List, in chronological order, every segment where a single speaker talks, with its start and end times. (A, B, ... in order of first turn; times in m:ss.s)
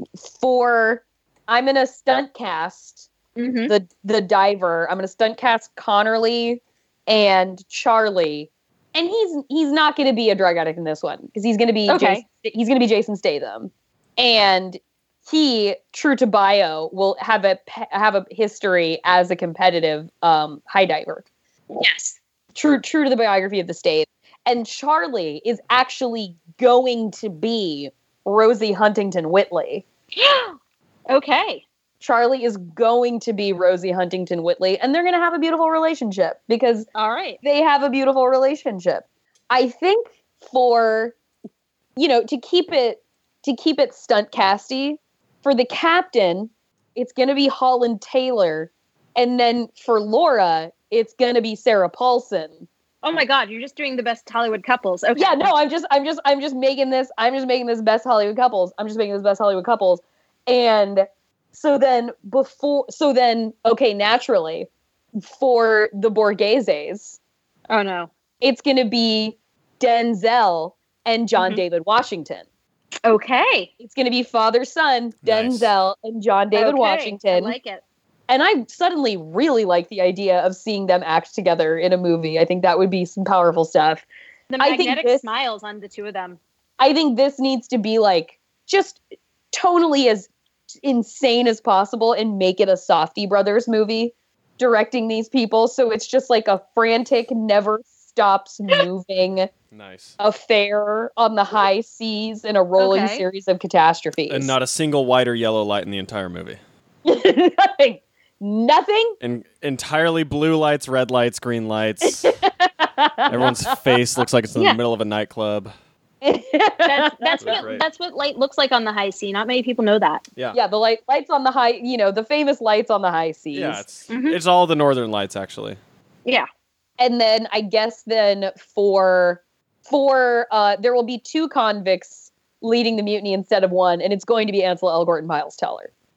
0:00.2-0:03.1 A
0:03.4-0:03.7 B
0:03.7-0:21.2 A
0:11.9-0:12.2 B
0:21.8-0:29.8 A
0:30.2-0:30.6 B
0:31.1-0:31.6 B
0:32.0-0:36.9 A
0:37.0-0:37.4 B
0:37.4-0:41.2 A
0:42.0-0:52.7 A
0:53.0-0:55.5 B
0:55.2-1:07.2 A
1:07.7-1:08.1 B
1:08.4-1:12.4 A
1:11.4-1:11.6 B
1:13.0-1:13.7 B
1:13.8-1:17.6 A
1:15.2-1:15.7 C
1:16.5-1:17.8 B
1:18.3-1:24.1 A
1:24.5-1:26.4 B
1:24.6-1:25.3 A
1:26.8-1:29.0 A
1:29.5-1:39.5 A
1:39.7-1:40.2 C
1:40.2-1:44.6 A
1:42.8-1:43.2 B
1:44.3-1:46.6 C
1:47.0-1:49.2 A
1:49.2-1:52.4 C
1:52.0-1:53.6 A
1:53.3-1:55.7 C
1:56.2-1:57.6 A
1:56.8-2:00.2 B
1:57.4-1:57.8 C
2:00.5-2:03.8 A
2:03.5-2:05.8 C
2:04.1-2:04.4 B
2:07.0-2:15.9 A